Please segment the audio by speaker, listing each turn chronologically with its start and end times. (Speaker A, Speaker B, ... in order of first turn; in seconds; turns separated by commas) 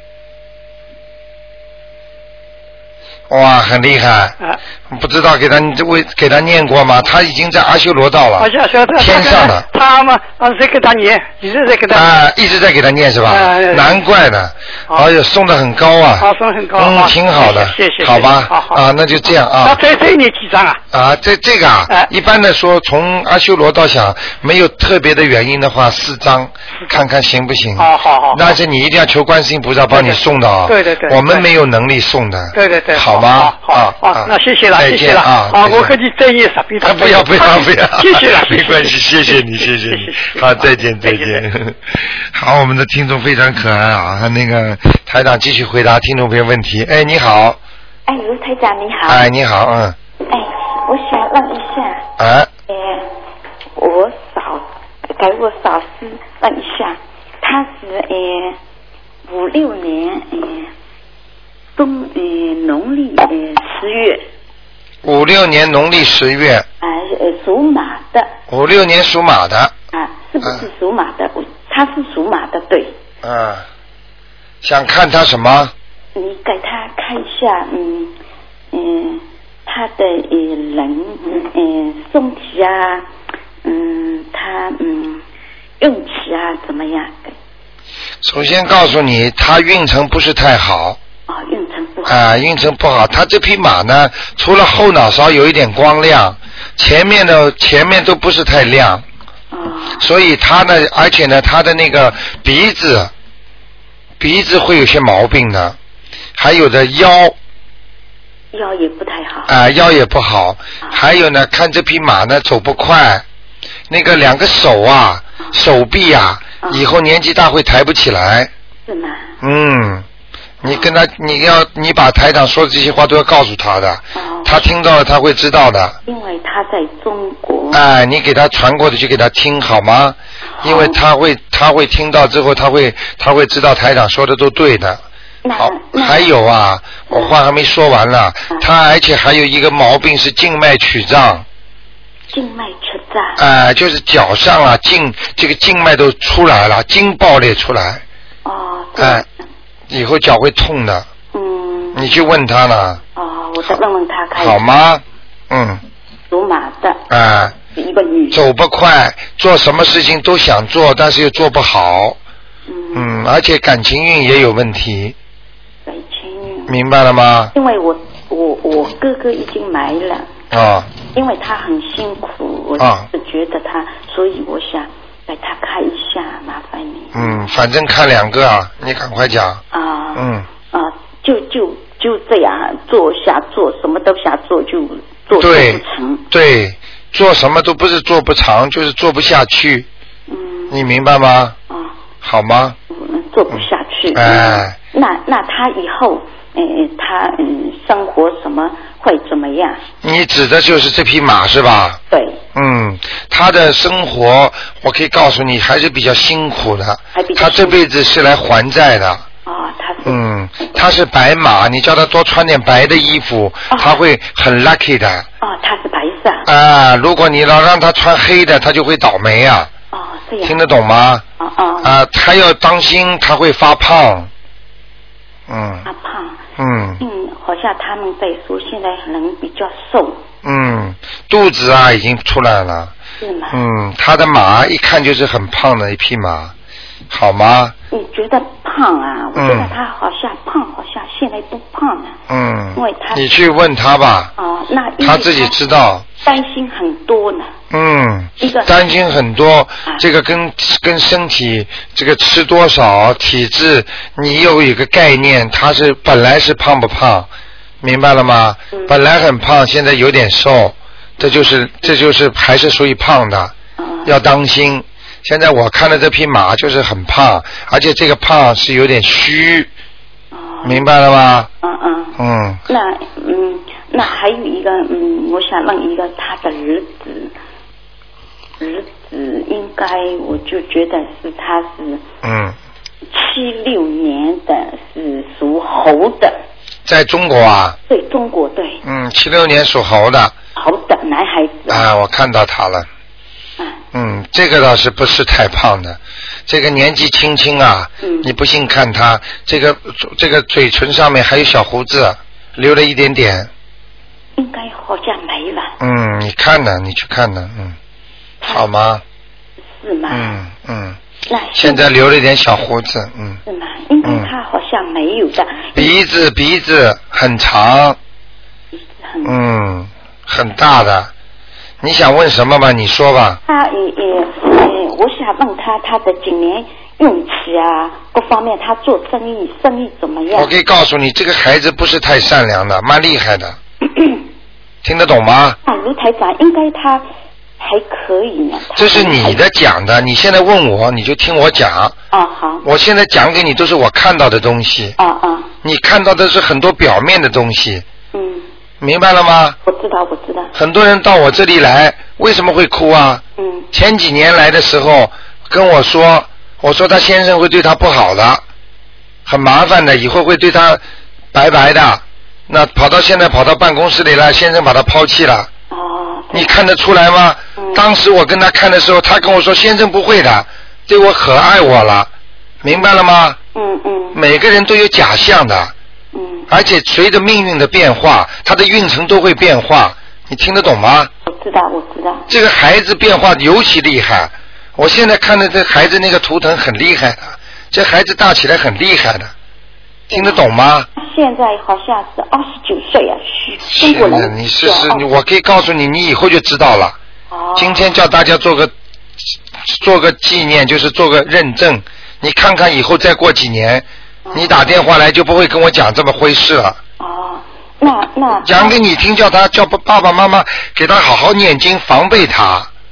Speaker A: 3.3-4.4, Speaker A: 4.9-9.7, Speaker B: 8.4-12.1, Speaker A: 11.9-19.8, Speaker B: 13.3-13.9, Speaker B: 16.2-18.8, Speaker B: 19.6-20.8, Speaker A: 20.9-36.0, Speaker B: 27.8-28.6, Speaker B: 29.9-31.5, Speaker B: 32.5-41.4, Speaker A: 36.8-47.6, Speaker C: 48.0-49.3, Speaker A: 49.1-50.0, Speaker C: 50.3-52.0, Speaker A: 52.2-52.5, Speaker C: 52.7-53.1, Speaker C: 53.8-58.6, Speaker C: 59.3-60.7, Speaker C: 61.8-64.2, Speaker A: 65.0-66.7, Speaker C: 66.8-68.3, Speaker A: 68.5-69.7, Speaker C: 69.9-73.0, Speaker A: 73.2-73.7, Speaker A: 74.6-75.7, Speaker C: 76.1-78.1, Speaker C: 78.7-83.1, Speaker C: 83.6-85.2, Speaker C: 85.8-87.3, Speaker A: 88.2-91.0, Speaker C: 91.3-92.2, Speaker A: 92.1-99.0, Speaker C: 99.5-100.0, Speaker A: 100.0-103.1, Speaker A: 104.2-105.8, Speaker A: 106.4-107.3, Speaker C: 108.5-109.5, Speaker A: 109.5-113.2, Speaker A: 113.9-118.5, Speaker C: 116.6-116.9, Speaker C: 118.9-119.3, Speaker A: 119.4-120.0, Speaker A: 120.6-126.0, Speaker C: 120.6-120.9, Speaker C: 124.1-124.7, Speaker C: 126.0-127.8, Speaker A: 127.7-135.0, Speaker C: 130.6-131.0, Speaker C: 135.4-136.3, Speaker A: 135.6-141.4, Speaker C: 137.1-137.3, Speaker C: 142.3-143.4, Speaker A: 143.4-148.0, Speaker C: 148.4-149.4, Speaker A: 149.0-149.2, Speaker A: 149.9-151.1, Speaker C: 151.3-152.1, Speaker A: 151.9-153.0, Speaker C: 153.1-154.6, Speaker A: 154.3-155.8, Speaker C: 156.3-157.0, Speaker A: 157.1-157.6, Speaker C: 157.7-158.4, Speaker A: 158.3-162.2, Speaker C: 162.7-163.2, Speaker A: 162.9-165.2, Speaker C: 165.8-166.8, Speaker A: 166.7-167.5, Speaker C: 167.5-170.3, Speaker A: 170.5-170.9, Speaker C: 171.1-177.5, Speaker A: 172.8-173.1, Speaker A: 177.1-179.6, Speaker C: 179.7-186.2, Speaker A: 180.1-180.5, Speaker A: 185.3-189.9, Speaker C: 190.3-190.8, Speaker A: 190.7-191.6, Speaker C: 191.7-191.9, Speaker A: 192.2-192.8, Speaker C: 192.9-199.8, Speaker A: 193.5-194.8, Speaker A: 200.0-202.0, Speaker C: 202.1-202.4, Speaker A: 202.5-209.2, Speaker C: 207.1-207.8, Speaker C: 209.4-210.8, Speaker A: 210.0-215.3, Speaker C: 213.7-214.0, Speaker C: 215.4-216.5, Speaker A: 216.4-219.7, Speaker C: 219.9-220.6, Speaker A: 220.4-221.2, Speaker C: 221.4-221.9, Speaker A: 221.8-224.3, Speaker A: 225.5-225.9, Speaker C: 225.8-226.4, Speaker A: 226.6-227.0, Speaker C: 227.0-230.2, Speaker A: 230.4-232.9, Speaker C: 233.2-233.6, Speaker A: 233.5-236.5, Speaker A: 237.1-237.7, Speaker C: 237.9-242.2, Speaker A: 239.3-239.7, Speaker A: 242.3-244.3, Speaker C: 242.7-243.2, Speaker C: 244.4-245.5, Speaker A: 245.0-246.1, Speaker C: 246.2-247.5, Speaker A: 247.7-257.3, Speaker C: 248.4-248.7, Speaker A: 257.8-269.7, Speaker C: 258.7-259.0, Speaker C: 263.8-264.1, Speaker C: 270.3-270.8, Speaker A: 270.6-271.5, Speaker C: 271.6-277.3, Speaker A: 272.2-272.6, Speaker C: 278.6-282.1, Speaker A: 282.2-282.6, Speaker C: 283.1-286.4, Speaker A: 286.9-287.8, Speaker C: 287.9-288.8, Speaker A: 288.8-290.3, Speaker C: 290.6-291.9, Speaker A: 291.7-292.9, Speaker A: 293.9-303.5, Speaker C: 298.0-298.3, Speaker C: 304.4-305.7, Speaker A: 305.8-307.8, Speaker C: 308.4-308.7, Speaker A: 308.5-309.0, Speaker C: 309.8-310.4, Speaker A: 310.1-311.0, Speaker C: 311.3-311.9, Speaker A: 311.6-313.4, Speaker C: 313.4-315.9, Speaker A: 314.0-314.3, Speaker A: 315.7-318.0, Speaker C: 318.7-319.3, Speaker A: 319.2-321.1, Speaker A: 321.8-323.4, Speaker C: 323.4-330.5, Speaker A: 330.3-333.6, Speaker C: 333.9-334.2, Speaker A: 334.8-335.6, Speaker C: 335.6-337.1, Speaker C: 337.6-339.4, Speaker A: 338.8-341.9, Speaker C: 342.1-342.6, Speaker A: 342.6-345.0, Speaker C: 345.0-345.5, Speaker A: 345.6-347.8, Speaker C: 348.1-348.5, Speaker A: 348.8-349.6, Speaker C: 349.6-350.5, Speaker A: 350.5-358.4, Speaker C: 353.4-353.7, Speaker A: 359.2-360.8, Speaker A: 361.3-365.5, Speaker C: 365.7-366.5, Speaker A: 366.3-372.1, Speaker C: 367.6-367.8, Speaker A: 372.6-373.4, Speaker C: 373.5-374.2, Speaker A: 374.1-375.7, Speaker C: 376.1-376.5, Speaker A: 376.5-381.1, Speaker C: 381.2-382.3, Speaker A: 382.3-389.3, Speaker C: 390.1-390.4, Speaker A: 390.1-390.9, Speaker C: 390.9-395.1, Speaker A: 393.6-397.0, Speaker C: 397.3-397.9, Speaker A: 397.6-398.7, Speaker A: 399.6-406.8, Speaker C: 404.2-404.7, Speaker C: 407.0-408.8, Speaker A: 408.4-412.7